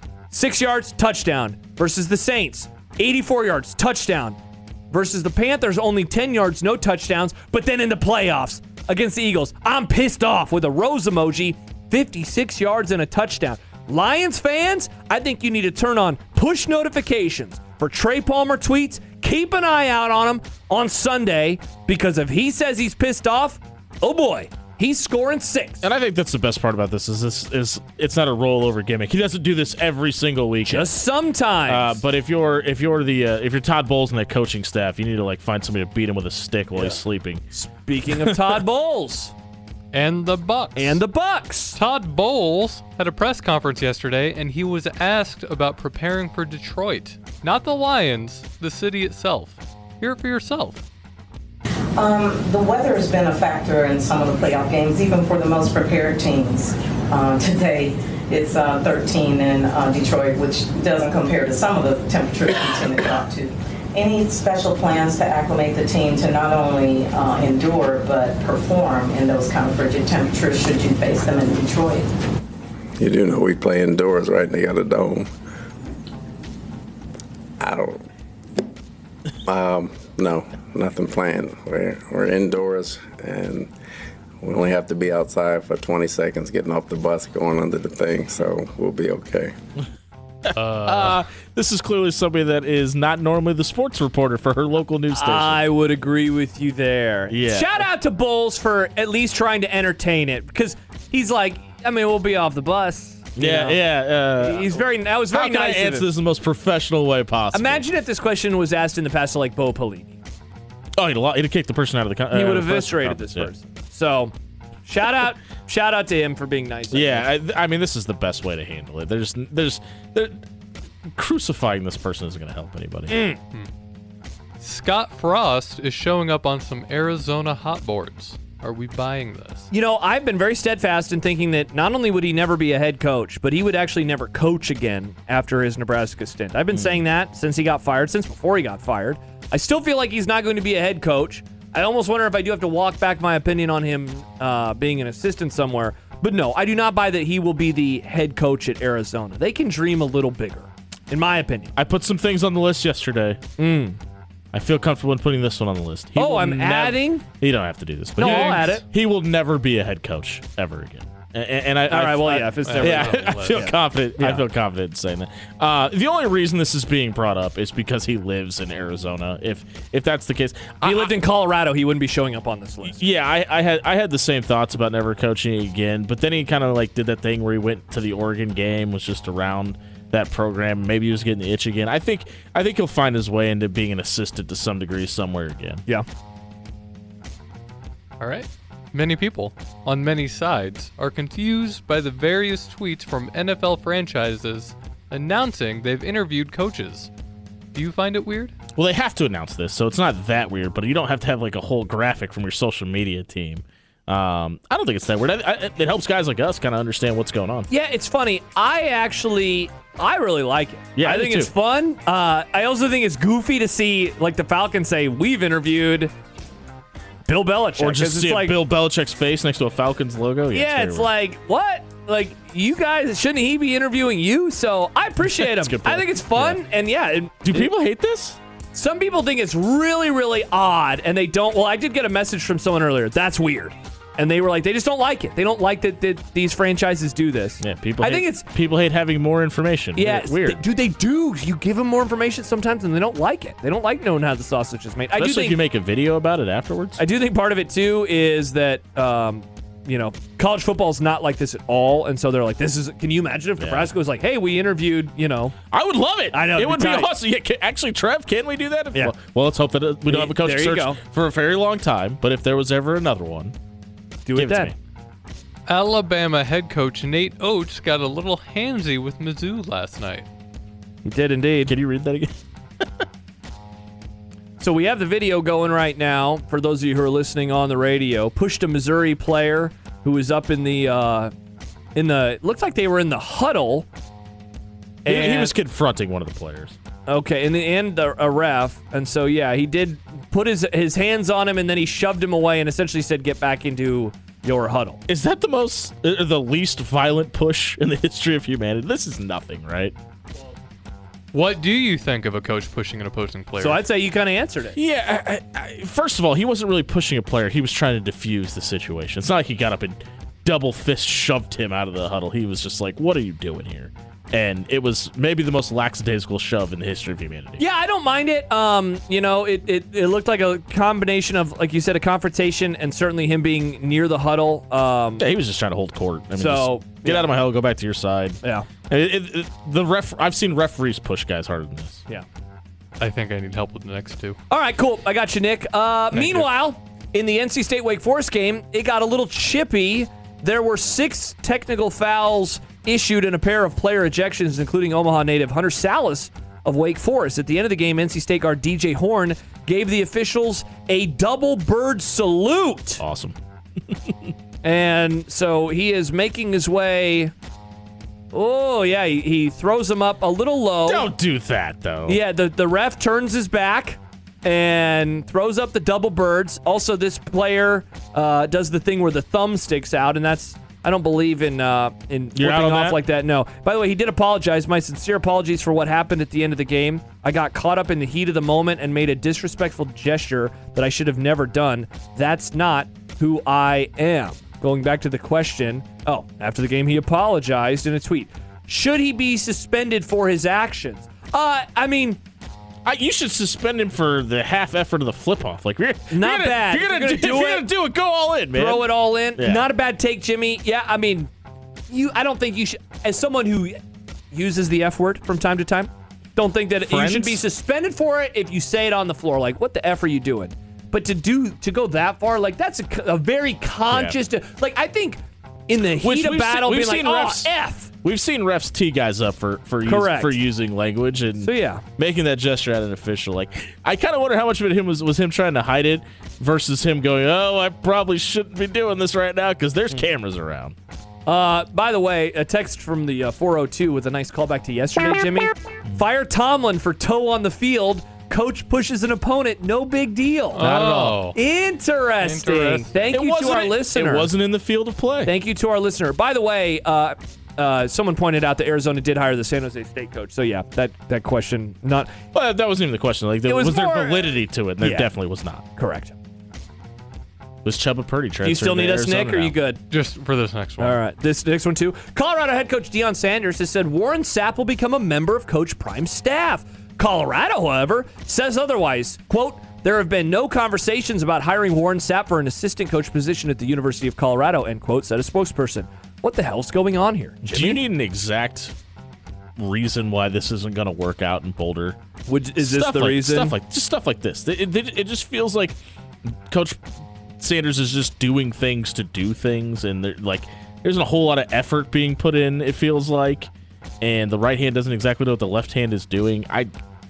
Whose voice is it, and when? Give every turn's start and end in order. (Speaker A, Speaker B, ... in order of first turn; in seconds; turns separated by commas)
Speaker A: 0.3-4.4, Speaker A: 4.9-25.8, Speaker B: 25.8-30.9, Speaker A: 30.7-32.0, Speaker B: 31.7-37.4, Speaker A: 36.8-37.0, Speaker A: 37.5-39.3, Speaker C: 39.9-41.0, Speaker A: 40.8-41.8, Speaker C: 41.8-50.8, Speaker D: 52.0-72.1, Speaker E: 73.0-75.3, Speaker E: 77.6-78.0, Speaker E: 79.5-83.7, Speaker E: 84.4-89.5, Speaker C: 90.5-91.2, Speaker B: 90.8-95.6, Speaker A: 95.1-103.8, Speaker B: 97.3-97.8, Speaker B: 103.4-107.8, Speaker A: 104.3-106.1, Speaker A: 107.5-110.2, Speaker B: 111.0-113.5, Speaker A: 112.3-114.3, Speaker A: 114.8-117.3, Speaker B: 116.9-120.4, Speaker B: 121.1-123.2, Speaker A: 123.1-123.4, Speaker C: 124.6-129.7, Speaker A: 129.7-151.7, Speaker B: 151.8-153.4, Speaker A: 153.6-154.0, Speaker B: 154.5-171.1, Speaker A: 156.2-157.2, Speaker A: 158.2-158.8, Speaker C: 158.2-158.6, Speaker A: 161.9-164.4, Speaker C: 162.6-163.7, Speaker A: 170.8-173.0, Speaker B: 172.9-185.8, Speaker C: 188.2-197.1, Speaker C: 197.7-198.6, Speaker B: 198.8-207.7, Speaker A: 207.7-216.1, Speaker B: 210.9-211.5, Speaker A: 217.3-218.6, Speaker B: 217.8-221.1, Speaker A: 220.5-227.7, Speaker B: 225.2-226.6, Speaker B: 227.4-228.4, Speaker A: 228.7-238.5, Speaker B: 237.6-240.6, Speaker A: 239.9-245.6, Speaker B: 245.2-247.0, Speaker A: 247.0-255.6, Speaker B: 253.6-253.9, Speaker B: 255.7-263.6, Speaker A: 256.3-257.1, Speaker A: 260.1-261.0, Speaker A: 264.2-264.7, Speaker B: 264.4-264.8, Speaker C: 265.7-270.3, Speaker A: 271.1-271.8, Speaker B: 271.7-273.0, Speaker A: 274.6-281.3, Speaker A: 281.9-283.9, Speaker A: 285.1-285.5, Speaker B: 285.1-286.8, Speaker A: 287.1-295.0, Speaker B: 295.1-299.9, Speaker C: 301.3-303.8, Speaker A: 303.6-304.8, Speaker B: 304.8-317.6, Speaker A: 317.6-325.3, Speaker B: 325.2-332.0, Speaker A: 326.4-327.3, Speaker A: 328.4-328.7, Speaker C: 333.0-334.4, Speaker A: 334.5-353.0, Speaker B: 353.0-353.4, Speaker A: 354.6-357.3, Speaker A: 358.3-361.1, Speaker B: 360.9-362.2, Speaker A: 362.1-392.2, Speaker B: 372.4-373.0, Speaker B: 392.9-399.6, Speaker A: 396.1-397.7, Speaker A: 398.5-401.3, Speaker A: 401.9-403.8, Speaker A: 404.3-417.9, Speaker B: 406.8-407.4, Speaker B: 413.9-414.2, Speaker B: 416.0-430.8, Speaker A: 419.9-420.4, Speaker A: 421.4-421.8, Speaker A: 431.3-440.6, Speaker C: 440.6-441.4, Speaker B: 440.6-441.2, Speaker A: 441.3-444.3, Speaker C: 442.2-443.2, Speaker B: 443.1-445.3, Speaker A: 445.2-452.1, Speaker B: 452.3-455.6, Speaker A: 453.5-455.1, Speaker A: 455.8-456.1, Speaker B: 457.6-459.6, Speaker A: 458.4-459.8, Speaker C: 459.9-460.9, Speaker A: 460.8-477.8, Speaker B: 477.4-478.7, Speaker B: 479.6-482.0, Speaker A: 482.3-483.6, Speaker B: 482.6-485.8, Speaker B: 486.5-486.8, Speaker B: 487.4-493.5, Speaker B: 494.0-496.7